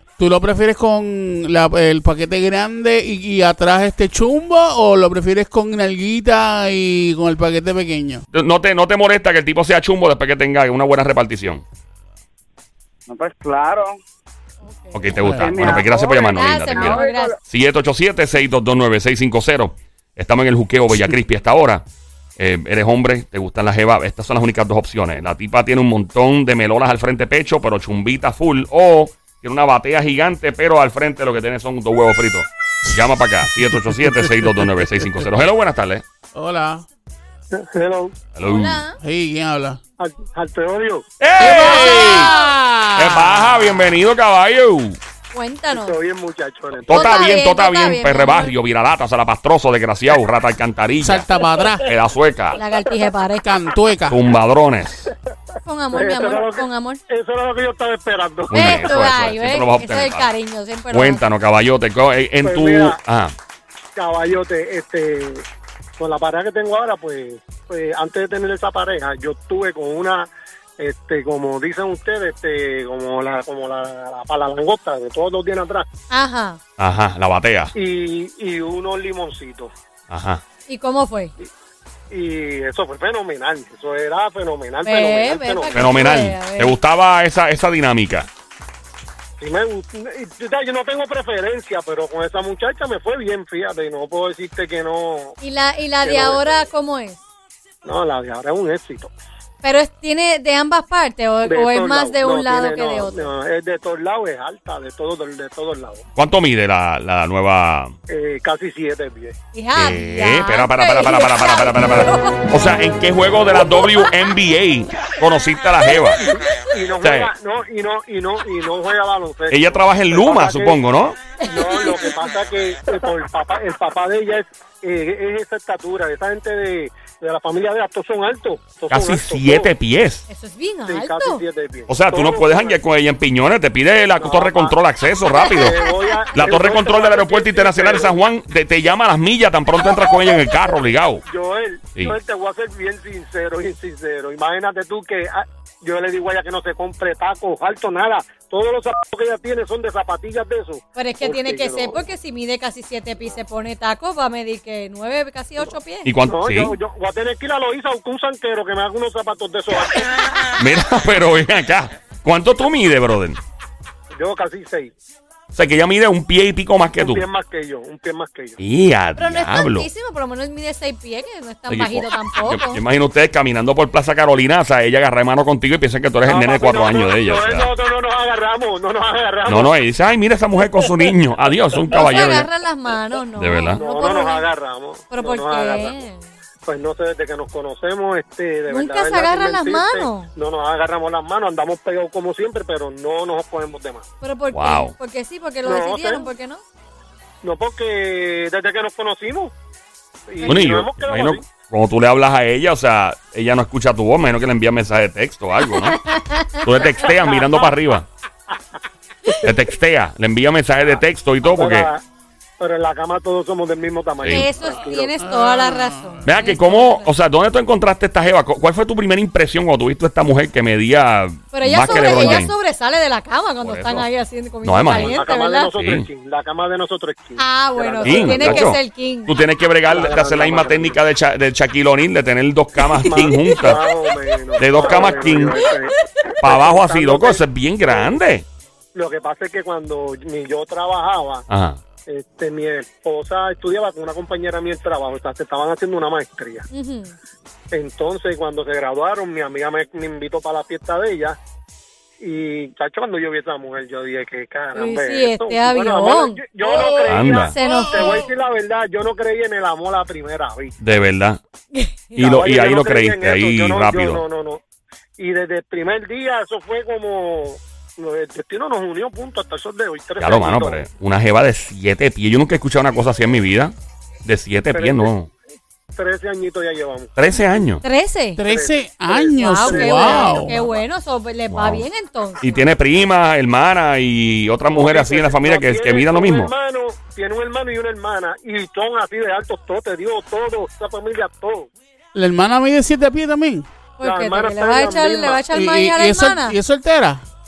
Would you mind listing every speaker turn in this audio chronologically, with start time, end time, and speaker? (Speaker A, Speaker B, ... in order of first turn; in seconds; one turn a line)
Speaker A: 0.2-8.2
Speaker B: 8.3-11.6
Speaker C: 13.1-14.0
Speaker D: 14.6-15.2
Speaker B: 14.9-21.8
Speaker C: 15.2-17.4
Speaker A: 15.2-15.8
Speaker D: 16.3-17.3
Speaker B: 22.4-36.0
Speaker A: 32.9-35.2
Speaker A: 36.3-36.9
Speaker E: 37.5-38.1
Speaker B: 38.3-38.8
Speaker D: 38.4-39.0
Speaker A: 39.0-39.8
Speaker E: 40.0-41.0
Speaker B: 41.2-42.3
Speaker A: 41.4-43.9
Speaker D: 41.7-42.3
Speaker B: 43.0-45.0
Speaker D: 45.3-46.0
Speaker E: 45.7-47.2
Speaker B: 46.8-52.6
Speaker D: 46.9-48.5
Speaker A: 51.0-51.9
Speaker D: 52.5-53.5
Speaker A: 53.4-54.2
Speaker B: 54.1-55.1
Speaker D: 55.6-57.0
Speaker E: 55.9-58.9
Speaker B: 58.5-60.3
Speaker D: 58.5-61.2
Speaker B: 60.9-63.3
Speaker E: 62.4-63.0
Speaker E: 64.0-65.4
Speaker E: 66.0-75.8
Speaker D: 76.1-76.6
Speaker B: 76.8-77.7
Speaker E: 77.7-79.7
Speaker B: 80.1-80.4
Speaker D: 80.7-81.3
Speaker E: 82.1-85.9
Speaker D: 84.8-86.7
Speaker B: 85.7-88.3
Speaker E: 89.4-95.4
Speaker D: 95.4-97.2
Speaker E: 96.0-96.7
Speaker E: 97.8-99.1
Speaker D: 99.6-103.3
Speaker E: 101.4-106.0
Speaker B: 106.2-107.9
Speaker E: 108.1-109.3
Speaker D: 109.5-112.4
Speaker B: 109.8-116.2
Speaker D: 113.6-114.1
Speaker E: 116.2-120.8
Speaker B: 117.0-117.3
Speaker B: 119.5-121.2
Speaker D: 121.4-122.1
Speaker E: 121.4-129.7
Speaker B: 128.9-130.2
Speaker D: 130.3-131.4
Speaker E: 130.8-132.8
Speaker B: 131.9-135.8
Speaker E: 134.2-134.8
Speaker D: 135.3-136.3
Speaker E: 135.4-138.1
Speaker B: 136.3-141.2
Speaker E: 141.2-152.0
Speaker D: 150.9-156.1
Speaker B: 156.0-156.7
Speaker E: 156.3-160.2
Speaker B: 160.6-163.4
Speaker E: 164.1-164.9
Speaker B: 165.5-167.2
Speaker E: 166.9-168.6
Speaker B: 168.6-169.9
Speaker D: 169.2-172.8
Speaker B: 171.7-177.7
Speaker E: 176.2-179.7
Speaker B: 179.5-182.5
Speaker D: 181.9-184.5
Speaker B: 183.4-183.8
Speaker E: 183.7-186.0
Speaker D: 185.1-186.2
Speaker E: 186.7-194.0
Speaker D: 188.7-190.3
Speaker D: 194.2-196.6
Speaker B: 194.5-194.9
Speaker E: 195.6-196.3
Speaker E: 197.4-199.5
Speaker E: 200.3-201.4
Speaker D: 200.4-200.7
Speaker B: 200.4-205.9
Speaker D: 205.7-206.6
Speaker B: 206.6-208.1
Speaker E: 207.0-207.7
Speaker E: 209.2-209.5
Speaker B: 209.4-211.9
Speaker E: 210.8-212.0
Speaker E: 212.6-215.1
Speaker B: 214.2-214.5
Speaker D: 214.2-217.1
Speaker A: 215.2-216.2
Speaker B: 216.2-222.5
Speaker D: 221.5-225.7
Speaker E: 221.8-222.4
Speaker B: 223.6-224.1
Speaker B: 224.6-225.2
Speaker E: 224.8-228.7
Speaker B: 225.8-226.1
Speaker D: 227.3-229.3
Speaker B: 228.0-233.8
Speaker E: 229.8-231.0
Speaker D: 233.0-234.1
Speaker E: 233.0-238.1
Speaker B: 234.6-235.6
Speaker D: 235.3-235.9
Speaker B: 236.4-238.4
Speaker E: 238.9-241.4
Speaker B: 241.5-241.8
Speaker E: 242.1-246.7
Speaker D: 246.7-247.1
Speaker E: 247.7-251.4
Speaker E: 252.2-260.7
Speaker D: 254.7-256.4
Speaker A: 256.6-258.3
Speaker B: 257.1-257.5
Speaker D: 257.3-258.2
Speaker B: 260.8-261.4
Speaker D: 261.7-262.1
Speaker B: 262.1-264.2
Speaker E: 262.2-264.6
Speaker E: 265.2-270.8
Speaker B: 270.2-273.7
Speaker B: 274.2-275.3
Speaker E: 274.7-275.1
Speaker E: 275.9-277.1
Speaker B: 277.1-277.8
Speaker D: 277.8-278.4
Speaker A: 278.4-280.6
Speaker E: 278.4-280.8
Speaker D: 279.4-282.7
Speaker B: 281.5-281.9
Speaker B: 282.4-286.5
Speaker E: 284.7-291.7
Speaker A: 292.1-293.7
Speaker D: 294.0-296.6
Speaker E: 294.0-295.4
Speaker A: 295.5-297.2